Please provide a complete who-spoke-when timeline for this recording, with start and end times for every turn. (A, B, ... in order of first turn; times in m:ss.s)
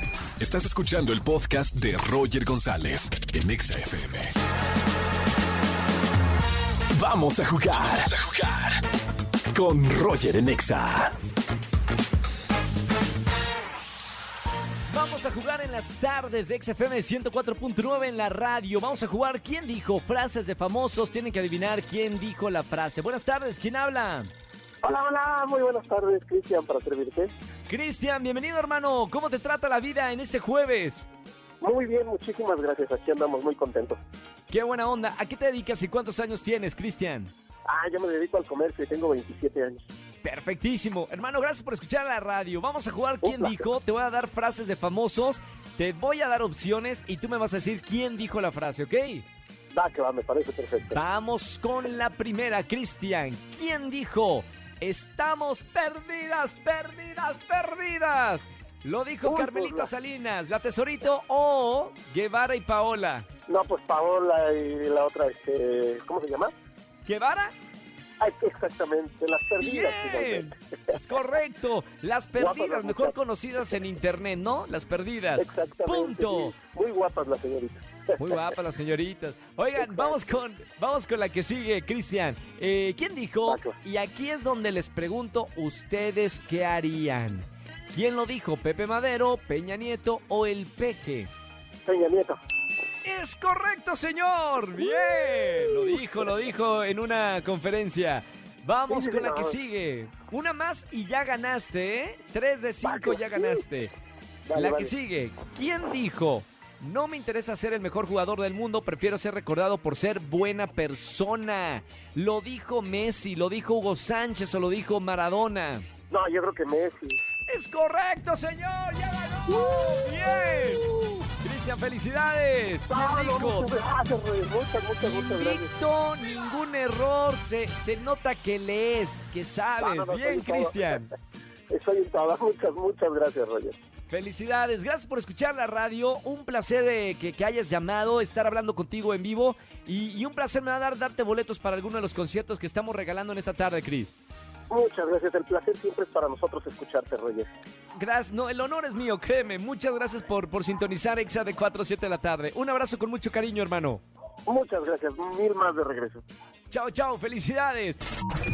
0:00.4-0:04.3 A
0:06.9-0:08.8 A
0:09.5-0:11.1 A
0:14.9-0:24.3 B
0:24.8-0:27.3 C
0:27.7-0:31.1 B
0:31.6-0:34.0 C
0:34.5-0:37.3 B
0:37.6-0:39.8 C
0:40.2-0:49.2 B
0:43.2-0:43.6 C
0:49.7-0:51.0 C
0:50.9-1:03.3 B
0:59.2-0:59.9 C
1:03.5-1:06.5 C
1:07.0-1:07.5 B
1:08.2-1:10.5 C
1:09.6-1:16.5 B
1:12.4-1:13.1 C
1:15.4-1:18.5 C
1:18.2-1:31.3 B
1:19.8-1:20.4 C
1:23.4-1:23.7 C
1:31.8-1:32.4 C
1:33.0-1:43.9 B
1:35.2-1:36.0 C
1:38.9-1:39.6 C
1:42.8-1:43.6 C
1:44.4-1:44.9 C
1:44.5-1:55.9 B
1:56.1-1:57.2 C
1:57.5-2:03.7 B
1:59.5-2:01.1 C
2:02.9-2:05.7 C
2:05.0-2:11.1 B
2:09.8-2:11.0 C
2:11.7-2:13.8 C
2:14.1-2:24.2 B
2:24.7-2:27.5 C
2:28.0-2:34.0 B
2:34.5-2:36.2 C
2:36.7-2:38.0 B